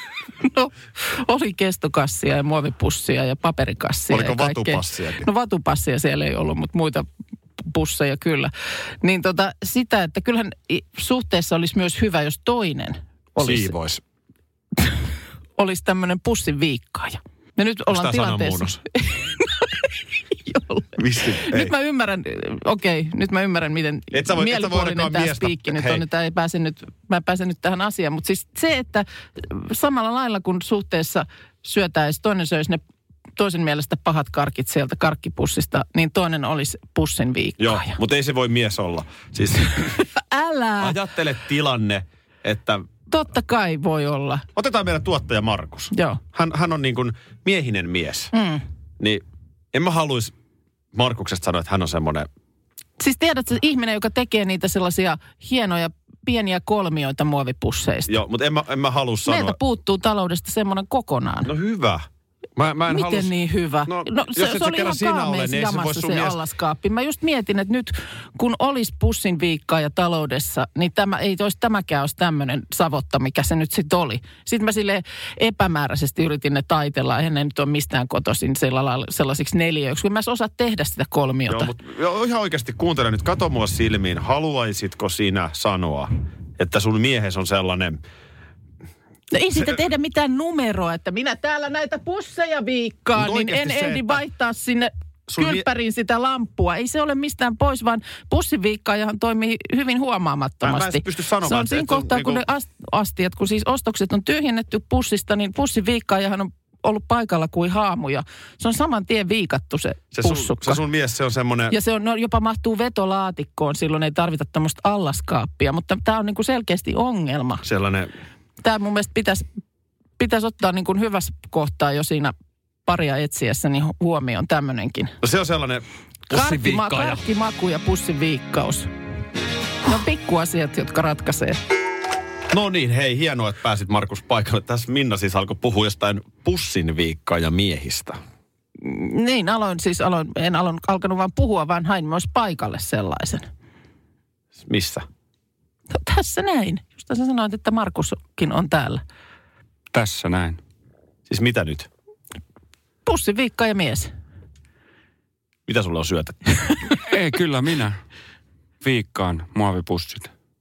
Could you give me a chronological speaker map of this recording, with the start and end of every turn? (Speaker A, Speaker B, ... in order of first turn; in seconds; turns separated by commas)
Speaker A: 0.4-7.1, Speaker B: 4.1-5.3, Speaker A: 7.6-13.7, Speaker B: 13.4-14.0, Speaker A: 15.6-32.8, Speaker B: 17.9-18.8, Speaker B: 21.0-21.7, Speaker B: 24.1-26.1, Speaker A: 33.4-37.9, Speaker B: 37.6-40.0, Speaker A: 40.0-40.9, Speaker B: 40.8-42.9, Speaker A: 43.1-44.5, Speaker B: 44.5-48.3, Speaker A: 45.9-46.2, Speaker A: 48.3-48.6, Speaker B: 49.0-50.3, Speaker B: 50.9-52.3, Speaker A: 53.0-58.2, Speaker B: 58.1-59.6, Speaker A: 59.3-61.5, Speaker B: 61.4-62.1, Speaker B: 62.6-63.3, Speaker A: 62.9-81.7, Speaker B: 63.9-66.4, Speaker B: 81.5-88.0, Speaker A: 89.3-110.8, Speaker B: 93.2-94.2, Speaker B: 95.3-95.7, Speaker B: 100.6-102.4, Speaker B: 110.1-111.8, Speaker A: 111.7-117.6, Speaker B: 117.6-118.1, Speaker A: 118.6-119.5, Speaker A: 120.2-122.3, Speaker A: 122.9-125.2, Speaker B: 125.2-127.2, Speaker A: 126.3-128.9, Speaker A: 129.8-131.6, Speaker B: 132.5-138.2, Speaker A: 138.8-143.5, Speaker B: 144.6-145.1, Speaker A: 145.9-149.0, Speaker C: 149.9-150.6, Speaker B: 151.3-151.9, Speaker A: 153.1-154.1, Speaker B: 155.7-156.4, Speaker C: 157.0-158.0, Speaker C: 158.8-160.3